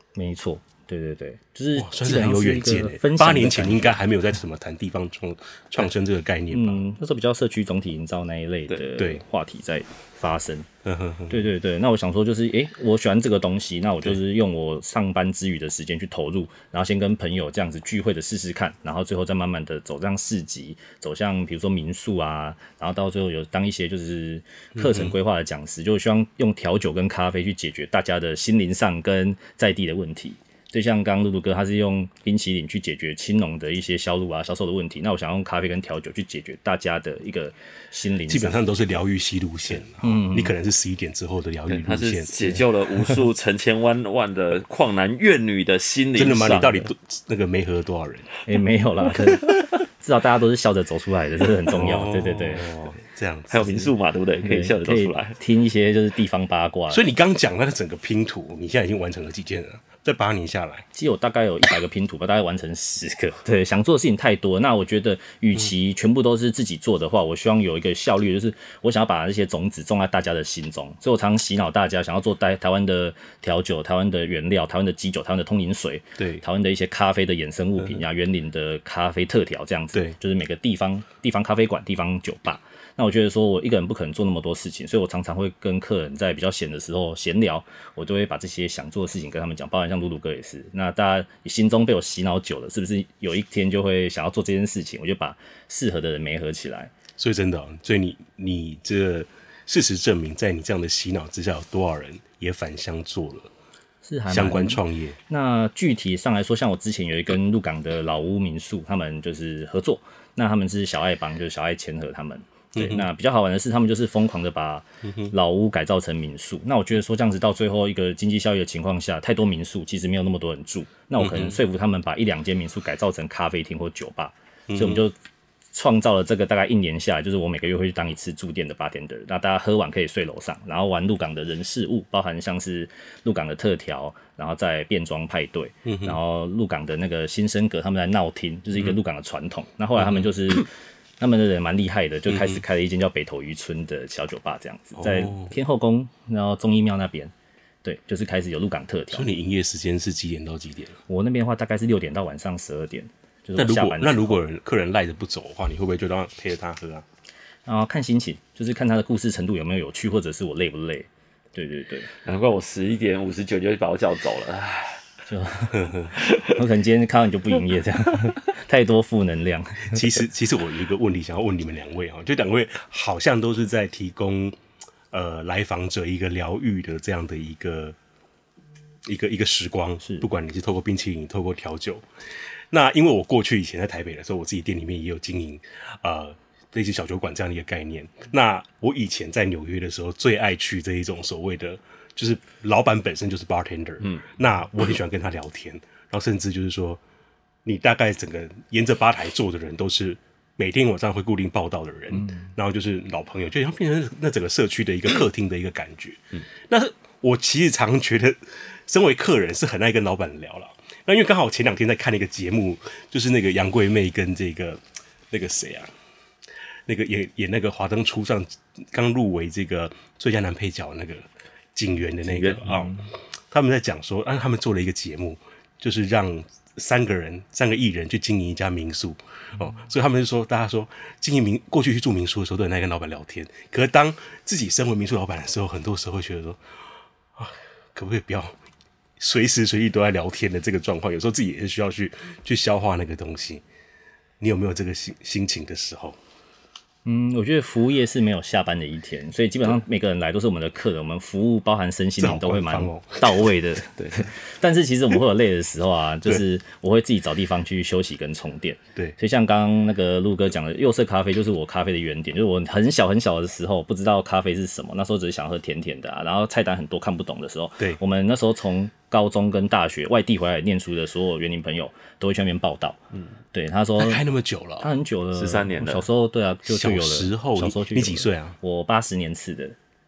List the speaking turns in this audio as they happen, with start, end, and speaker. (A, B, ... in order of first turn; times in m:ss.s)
0:00.2-0:04.0 A
0:01.8-0:06.8 B
0:06.5-0:10.7 A
0:09.0-0:09.2 B
0:10.8-0:11.5 B
0:11.3-0:38.6 A
0:24.8-0:25.1 B
0:38.3-0:42.3 B
0:40.0-0:40.5 A
0:41.7-0:46.9 C
0:42.4-0:43.1 A
0:46.2-0:48.3 B
0:48.4-0:52.7 A
0:51.7-0:53.9 B
0:53.5-0:55.4 C
0:54.4-0:57.0 A
0:56.9-1:00.8 B
1:00.9-1:36.9 A
1:16.2-1:16.4 B
1:37.2-1:43.5 B
1:44.0-2:05.1 A
1:44.3-1:45.2 B
1:52.7-1:53.1 B
1:55.0-1:55.3 B
2:01.2-2:01.6 B
2:04.7-2:05.0 B
2:05.7-2:20.7 A
2:15.8-2:16.2 B
2:20.0-2:20.3 B
2:21.2-2:27.3 A
2:22.3-2:22.6 B
2:25.0-2:25.5 B
2:27.8-2:29.3 A
2:29.1-2:31.0 B
2:31.1-2:34.4 A
2:33.6-2:37.0 B
2:37.6-2:42.1 A
2:42.2-2:45.0 C
2:45.3-2:50.2 A
2:45.7-2:46.1 B
2:46.2-2:46.5 C
2:49.9-2:54.6 B
2:55.1-2:58.0 B
2:59.0-3:02.0 B
3:00.0-3:00.2 A
3:02.7-3:17.0 B
3:17.6-3:35.9 B
3:36.8-3:56.6 B
3:42.2-3:42.8 C
3:42.7-3:43.1 A
3:57.3-3:58.6 B
3:59.2-4:03.6 B
4:04.4-4:06.2 B
4:07.0-4:33.0 A
4:12.2-4:14.2 B
4:33.5-4:34.2 A
4:34.0-4:34.9 B
4:34.8-4:39.8 A
4:35.3-4:36.1 C
4:36.6-4:38.6 B